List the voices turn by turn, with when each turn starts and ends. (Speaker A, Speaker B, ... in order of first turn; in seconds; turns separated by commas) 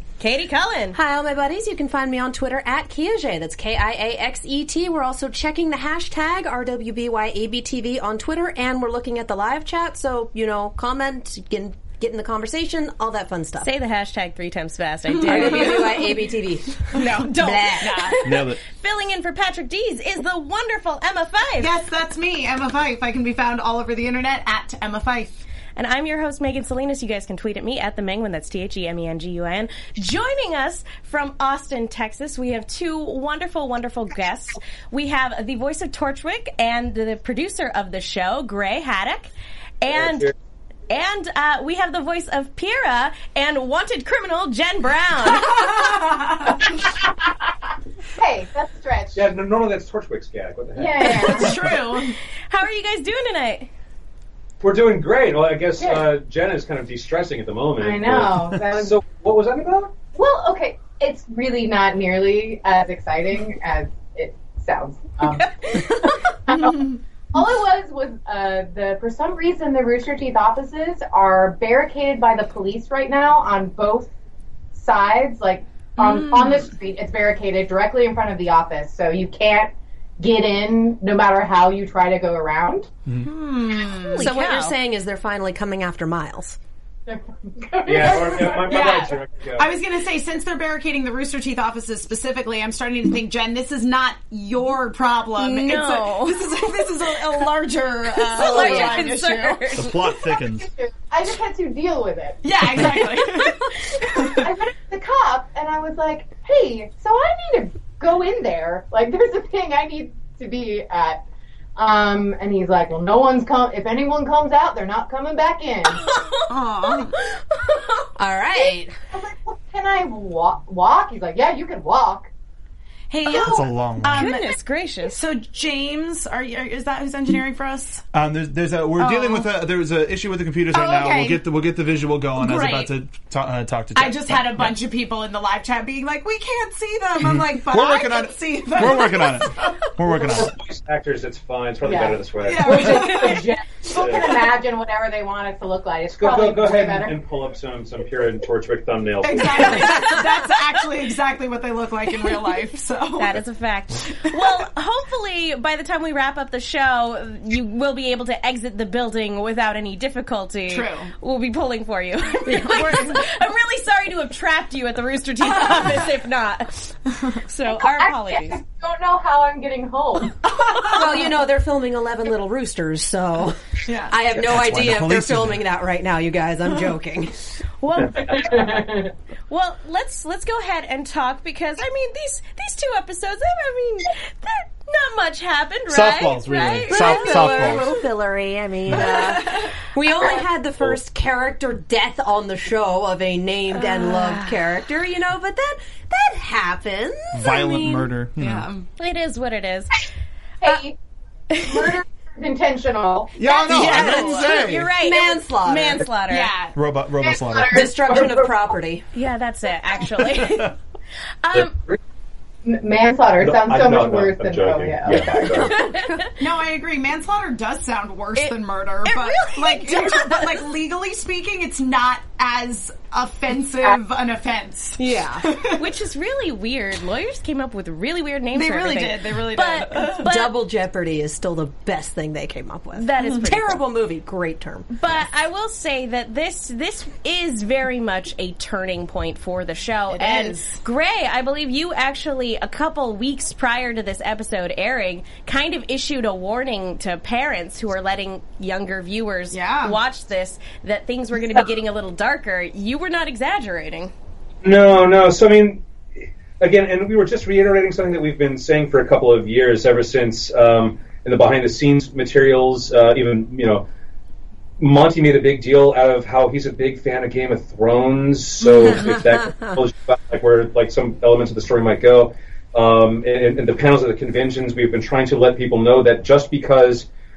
Speaker A: 0.2-1.0, Speaker B: 0.9-13.7, Speaker A: 13.6-16.0, Speaker C: 15.2-15.9, Speaker B: 15.2-18.1, Speaker C: 16.9-18.2, Speaker A: 17.4-21.7, Speaker D: 18.2-18.6, Speaker C: 21.6-25.3, Speaker A: 25.8-40.3, Speaker E: 39.9-40.3, Speaker A: 40.9-45.9, Speaker C: 45.6-46.6, Speaker F: 48.2-49.3, Speaker E: 49.1-51.6, Speaker F: 50.8-51.6, Speaker C: 51.0-52.2, Speaker A: 52.5-53.7, Speaker E: 54.6-60.0, Speaker F: 55.8-56.1, Speaker F: 57.8-59.0, Speaker F: 60.1-74.1, Speaker C: 66.5-67.0, Speaker F: 74.7-82.9, Speaker C: 76.0-76.7, Speaker C: 83.2-84.2, Speaker A: 83.7-84.8, Speaker B: 84.2-86.6, Speaker F: 87.1-89.1, Speaker E: 87.8-89.7, Speaker C: 88.7-99.8, Speaker A: 95.4-96.5, Speaker A: 98.2-100.1, Speaker B: 98.5-99.0, Speaker D: 99.7-100.7, Speaker F: 100.6-103.0, Speaker C: 102.4-104.5, Speaker F: 104.2-111.2, Speaker F: 111.8-116.0, Speaker A: 116.1-116.5, Speaker C: 116.5-117.2, Speaker B: 118.2-118.9, Speaker F: 119.1-122.3, Speaker C: 123.1-128.0, Speaker D: 123.3-124.4, Speaker A: 124.1-125.2, Speaker D: 128.1-134.7, Speaker C: 129.0-129.5, Speaker C: 130.7-131.4, Speaker C: 132.4-132.9, Speaker C: 133.9-139.5, Speaker D: 137.2-140.6, Speaker E: 140.3-143.3, Speaker F: 141.8-147.2, Speaker C: 142.4-143.5, Speaker E: 143.9-144.4, Speaker E: 146.1-149.9, Speaker C: 149.2-153.4, Speaker A: 153.2-168.6, Speaker C: 160.7-161.1, Speaker B: 162.5-162.8, Speaker F: 167.8-170.4, Speaker C: 170.4-171.2, Speaker B: 170.9-177.4, Speaker C: 173.9-174.2, Speaker D: 174.4-175.6, Speaker A: 177.8-178.7, Speaker F: 178.5-179.1, Speaker A: 179.5-187.9, Speaker D: 185.9-187.9, Speaker B: 186.9-197.8, Speaker C: 189.1-189.7, Speaker D: 197.3-198.7, Speaker C: 198.4-198.9, Speaker A: 199.0-200.0, Speaker F: 200.6-201.0, Speaker A: 201.6-201.9, Speaker F: 201.6-203.3, Speaker D: 203.4-204.9, Speaker A: 203.4-206.5, Speaker C: 203.7-204.5, Speaker B: 204.9-206.1, Speaker C: 206.3-206.8, Speaker D: 206.8-207.9, Speaker F: 207.2-208.7, Speaker B: 207.7-209.1, Speaker A: 209.1-210.8, Speaker A: 211.4-211.7, Speaker E: 211.6-212.0, Speaker F: 212.7-215.6, Speaker E: 213.4-215.8, Speaker B: 215.4-216.3, Speaker A: 215.7-216.1, Speaker C: 216.4-225.8, Speaker A: 219.1-220.6, Speaker B: 225.0-225.5, Speaker A: 225.6-230.6, Speaker C: 228.5-230.3, Speaker B: 230.2-234.9, Speaker A: 232.9-233.8, Speaker A: 235.0-254.1, Speaker C: 240.1-240.8, Speaker C: 249.5-250.0, Speaker E: 254.6-255.8, Speaker E: 256.6-263.9, Speaker E: 264.8-277.1, Speaker C: 268.6-269.2